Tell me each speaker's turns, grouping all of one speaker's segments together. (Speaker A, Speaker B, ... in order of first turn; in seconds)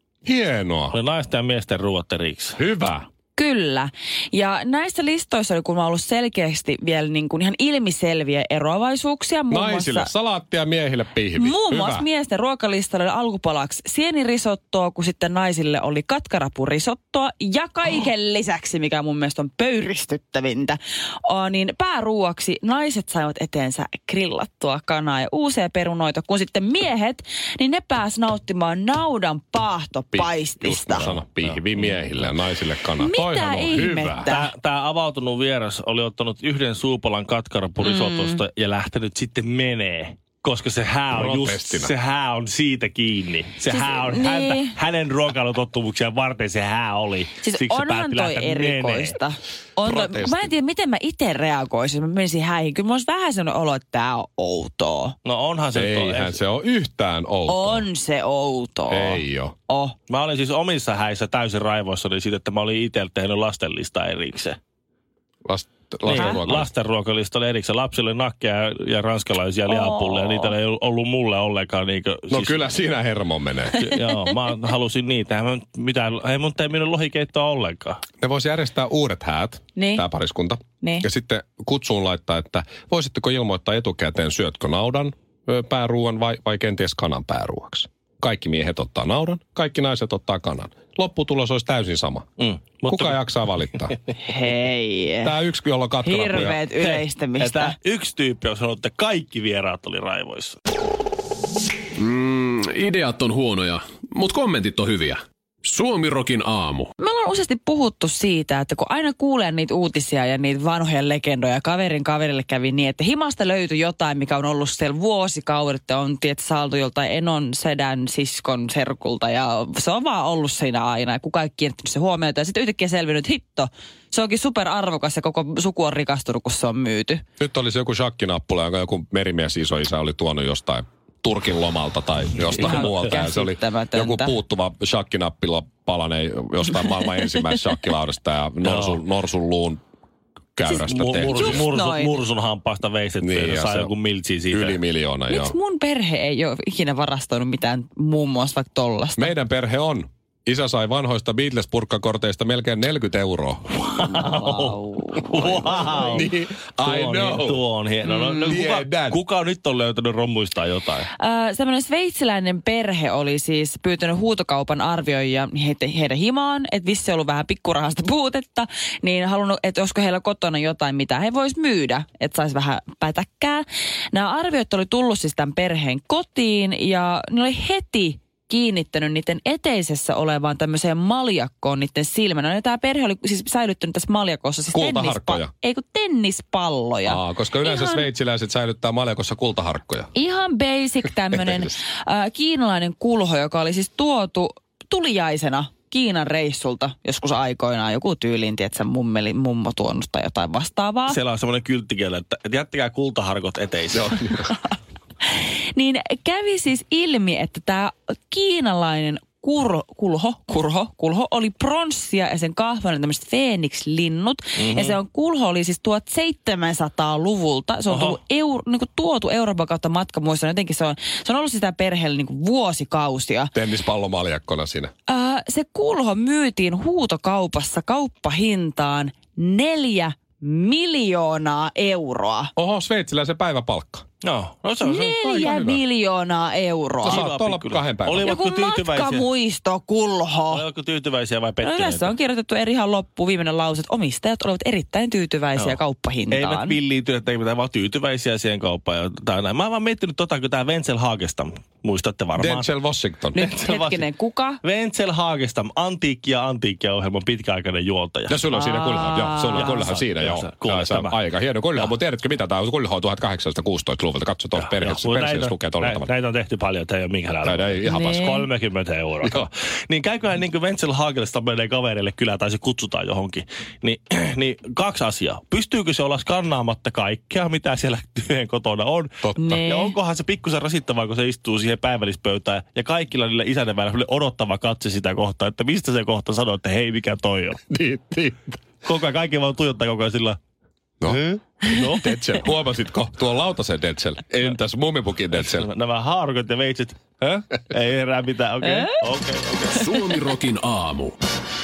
Speaker A: 0.2-0.9, 2.6-3.0, 9.5-12.1, 30.1-34.3, 41.1-41.9, 49.8-50.5, 55.7-57.9, 58.9-59.5, 65.4-66.7, 72.3-73.8, 78.2-92.3, 92.8-93.9, 95.2-96.6, 127.4-139.8, 140.6-141.7, 143.2-143.9, 144.5-145.6, 149.2-153.6, 155.3-157.6, 158.4-159.2, 184.7-185.5, 187.0-190.1, 191.3-191.7, 203.9-204.3, 223.5-224.9, 232.6-234.0, 235.1-235.8, 237.0-238.3, 252.4-253.4, 258.3-266.1, 267.4-268.4, 279.2-279.6, 287.7-288.6, 291.0-295.7
Speaker B: 0.9-2.6, 30.9-32.3, 34.2-49.2, 55.2-56.4, 60.1-64.6, 66.0-72.7, 73.8-78.0, 92.4-93.3, 96.4-100.6, 138.6-139.0, 140.7-144.8, 153.8-161.1, 201.1-204.4, 214.6-215.0, 217.9-218.2, 234.2-235.5, 237.0-239.3, 240.5-242.1, 246.3-252.7, 253.3-254.1, 254.6-258.4, 259.5-261.2, 264.6-287.6, 288.8-290.4, 291.1-292.0, 295.3-299.9
Speaker C: 3.3-10.1, 11.3-31.1, 33.0-34.5, 37.8-38.4, 43.7-44.7, 47.4-55.1, 57.5-60.0, 66.1-66.4, 69.7-70.5, 79.8-80.0, 94.2-95.3, 96.0-97.7, 107.0-127.2, 132.6-134.3, 141.2-142.2, 145.3-149.3, 154.1-156.2, 158.1-158.6, 161.1-188.1, 190.1-201.2, 205.3-223.5, 225.1-232.5, 234.8-237.2, 238.2-240.6, 241.6-246.8, 253.3-254.6, 258.5-259.9, 267.9-268.4, 279.4-279.9, 298.6-298.9
Speaker D: 102.0-106.9, 299.7-301.2